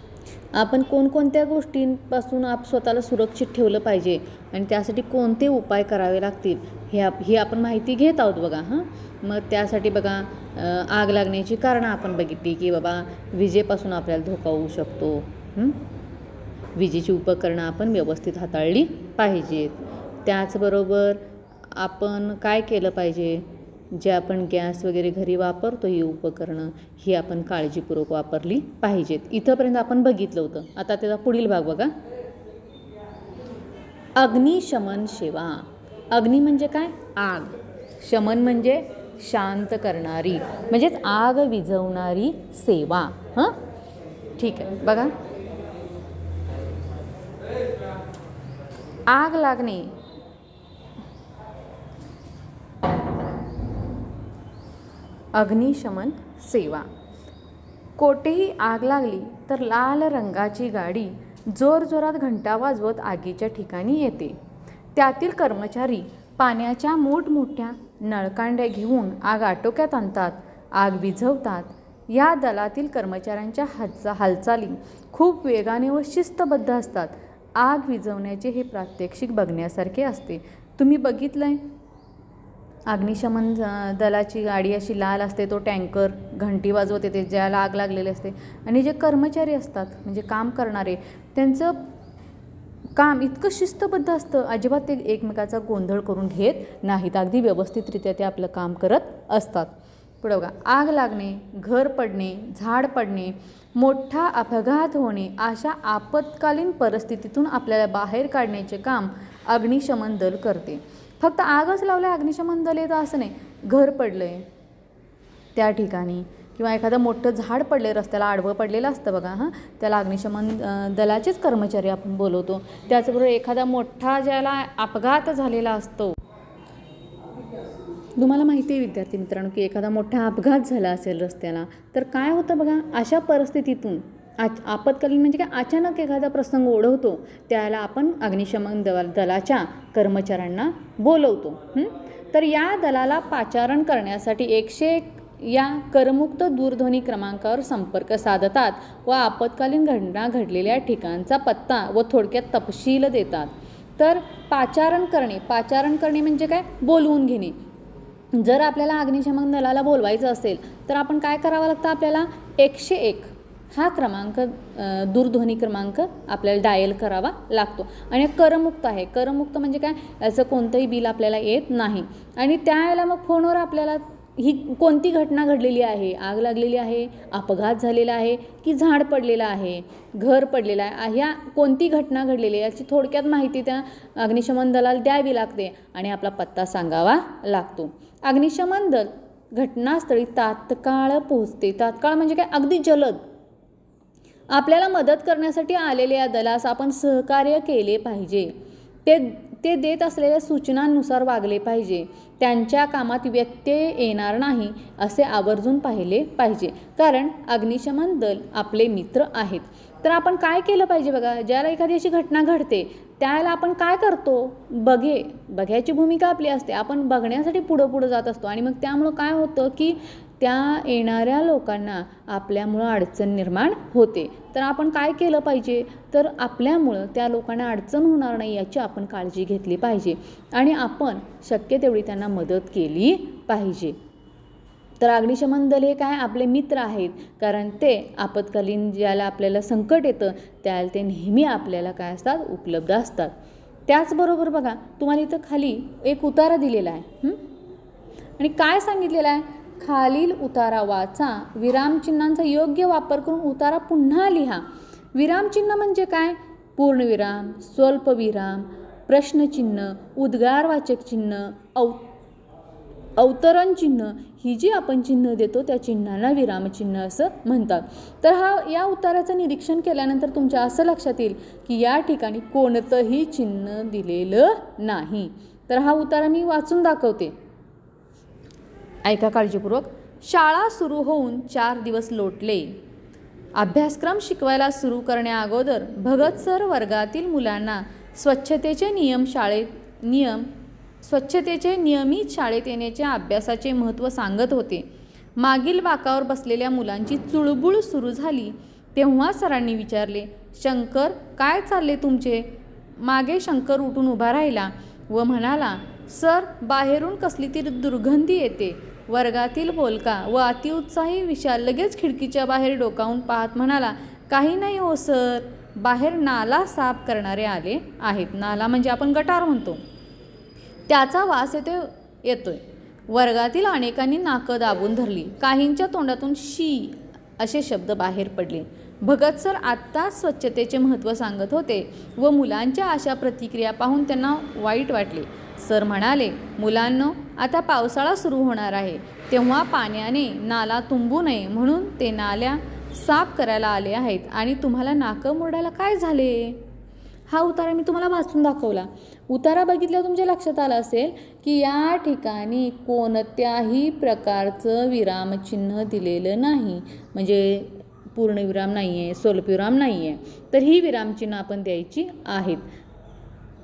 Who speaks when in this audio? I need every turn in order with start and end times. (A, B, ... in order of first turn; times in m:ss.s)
0:00.5-0:15.8 A
0:16.7-0:31.9 A
0:34.2-0:43.6 A
0:44.4-0:45.1 A
0:49.1-0:49.9 A
0:55.3-0:56.9 A
0:58.0-1:04.4 A
1:04.9-1:21.6 A
1:22.9-1:31.9 A
1:33.0-1:54.4 A
1:55.5-2:06.2 A
2:08.2-2:37.6 A
2:38.3-3:13.2 A
3:14.5-3:18.5 A
3:19.0-3:54.0 A
3:55.0-4:03.3 A
4:03.9-4:07.4 A
4:08.4-4:22.1 A
4:23.2-4:37.3 A
4:39.0-4:42.7 A
4:43.6-4:50.5 A
4:51.0-5:19.8 A
5:20.9-5:46.6 A
5:47.3-6:02.6 A